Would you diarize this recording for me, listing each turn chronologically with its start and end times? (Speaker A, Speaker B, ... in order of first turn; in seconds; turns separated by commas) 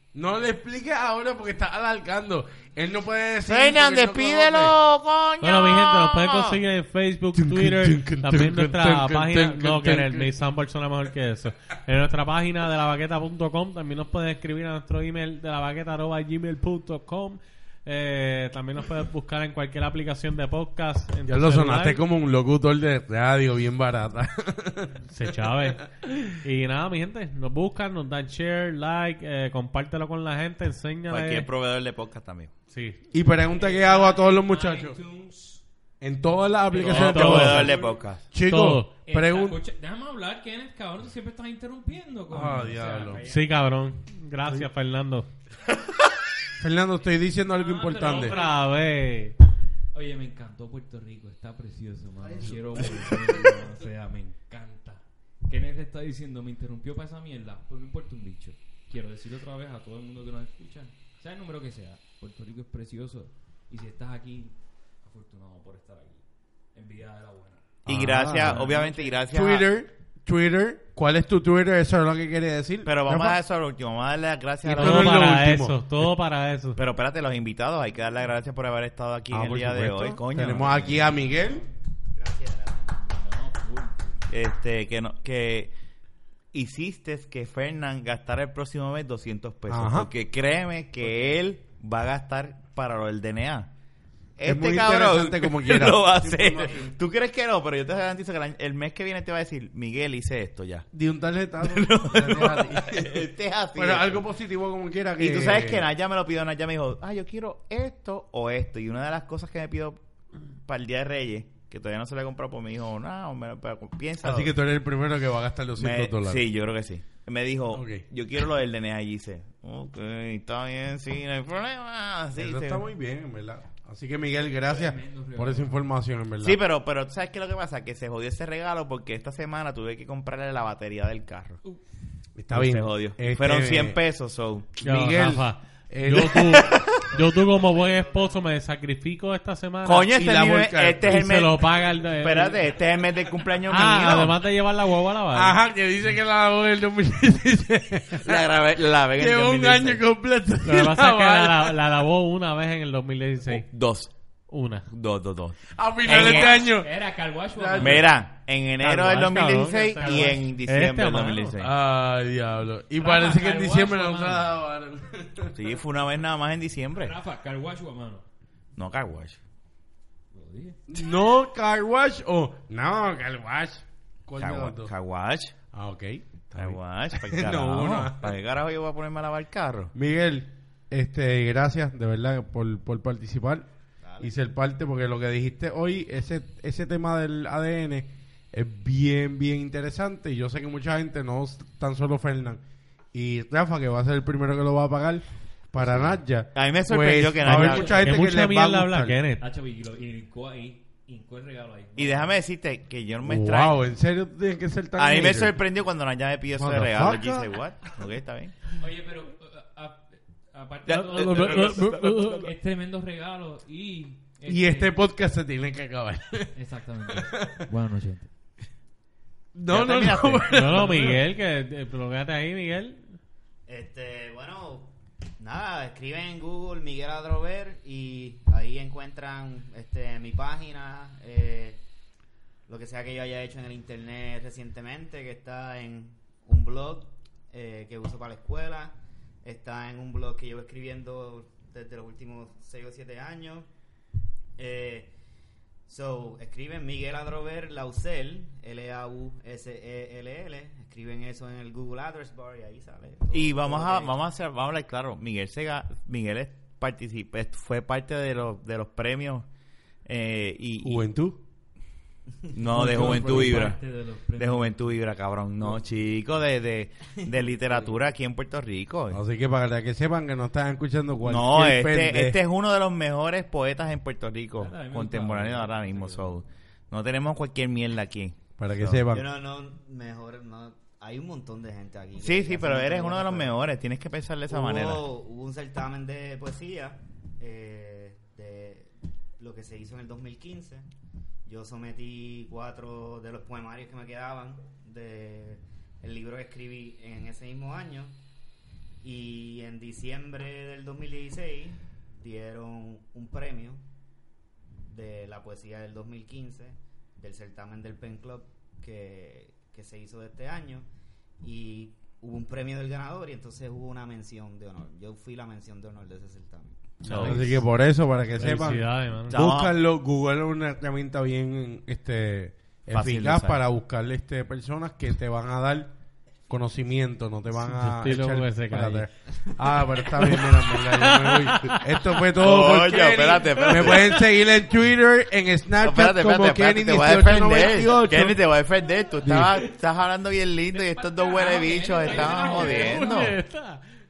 Speaker A: 0.1-4.7, Speaker B: 3.4-6.6, Speaker C: 5.4-22.0, Speaker A: 7.4-10.3, Speaker A: 21.3-25.0, Speaker C: 25.1-31.5, Speaker B: 31.1-32.5, Speaker C: 32.7-33.0, Speaker A: 33.1-35.0, Speaker D: 33.5-35.6, Speaker A: 36.0-39.6, Speaker D: 36.7-37.9, Speaker B: 36.8-38.2, Speaker C: 36.8-37.8, Speaker C: 38.5-38.9, Speaker D: 39.1-43.5, Speaker A: 42.3-43.2, Speaker C: 43.2-45.3, Speaker A: 46.6-48.4, Speaker D: 47.5-48.7, Speaker C: 48.0-49.4, Speaker D: 49.9-67.6, Speaker E: 52.4-53.1, Speaker B: 67.9-69.7, Speaker A: 67.9-73.4, Speaker D: 68.4-69.1, Speaker B: 72.9-75.3, Speaker A: 74.6-76.1, Speaker C: 74.7-76.8, Speaker B: 76.8-81.1, Speaker A: 79.3-81.6, Speaker E: 82.2-83.0, Speaker D: 82.9-84.2, Speaker B: 84.3-85.7, Speaker B: 86.5-93.7, Speaker A: 89.7-90.1, Speaker D: 91.1-91.3, Speaker B: 94.4-100.9, Speaker A: 94.5-96.9, Speaker A: 100.9-105.8, Speaker B: 101.6-104.3, Speaker B: 105.2-110.0, Speaker B: 110.7-114.5, Speaker A: 114.2-116.4, Speaker B: 115.8-122.9, Speaker A: 117.7-118.0, Speaker A: 122.4-126.6, Speaker D: 124.6-125.9, Speaker B: 126.4-131.6, Speaker A: 132.4-134.0, Speaker B: 132.5-134.7, Speaker A: 134.8-136.8, Speaker C: 134.8-140.1, Speaker D: 137.6-138.2, Speaker B: 139.8-144.4, Speaker A: 140.1-141.3, Speaker C: 141.1-142.7, Speaker C: 143.7-145.6, Speaker A: 145.3-148.4, Speaker B: 148.2-150.0, Speaker A: 149.2-151.8, Speaker C: 150.6-153.7, Speaker B: 153.5-154.1, Speaker C: 154.5-154.9, Speaker B: 154.9-156.6, Speaker A: 155.8-156.9, Speaker D: 156.2-158.1, Speaker A: 157.6-158.0, Speaker B: 157.8-161.7, Speaker C: 158.8-161.6, Speaker D: 159.7-160.4, Speaker A: 161.6-165.6, Speaker D: 163.0-164.5, Speaker B: 165.5-167.1, Speaker D: 166.9-168.2, Speaker B: 168.8-169.4, Speaker D: 170.3-170.8, Speaker A: 170.9-174.9, Speaker B: 174.4-175.5, Speaker A: 175.7-178.3, Speaker B: 176.6-179.9, Speaker A: 179.9-183.7, Speaker E: 184.0-184.3, Speaker A: 184.2-192.6, Speaker A: 193.1-199.2, Speaker B: 195.8-198.1, Speaker C: 197.4-199.4, Speaker D: 197.5-198.0, Speaker D: 199.4-202.4, Speaker B: 202.0-203.8, Speaker A: 203.2-205.6, Speaker B: 205.0-208.5, Speaker A: 206.6-207.5, Speaker D: 208.8-214.9, Speaker B: 210.9-212.5, Speaker C: 210.9-212.5, Speaker A: 214.5-216.5, Speaker D: 216.5-218.3, Speaker A: 217.1-217.6, Speaker A: 219.5-221.2, Speaker B: 219.7-221.0, Speaker C: 220.5-223.2, Speaker E: 223.7-231.8, Speaker E: 232.7-243.7, Speaker E: 244.6-245.1, Speaker E: 245.9-254.1, Speaker B: 253.3-259.5, Speaker B: 260.1-261.1, Speaker A: 260.8-261.4, Speaker B: 262.5-263.8, Speaker D: 262.7-265.0, Speaker A: 262.7-263.7, Speaker B: 264.4-269.2, Speaker A: 269.1-272.4, Speaker B: 271.2-279.0, Speaker D: 274.6-276.4, Speaker A: 278.6-279.3, Speaker E: 279.1-283.6, Speaker B: 282.2-285.1, Speaker E: 284.5-290.9, Speaker E: 291.4-298.1, Speaker E: 299.0-303.8, Speaker E: 304.9-310.9, Speaker E: 311.4-316.9, Speaker C: 317.0-317.5, Speaker B: 317.1-317.6, Speaker A: 317.1-325.9, Speaker C: 318.4-319.3, Speaker B: 319.3-319.8, Speaker B: 322.9-323.6, Speaker A: 326.5-338.4, Speaker C: 327.6-329.1, Speaker C: 330.2-332.0, Speaker B: 332.4-334.2, Speaker C: 333.7-334.2, Speaker B: 335.8-343.4, Speaker A: 339.2-339.5, Speaker D: 340.7-343.1, Speaker C: 342.1-343.8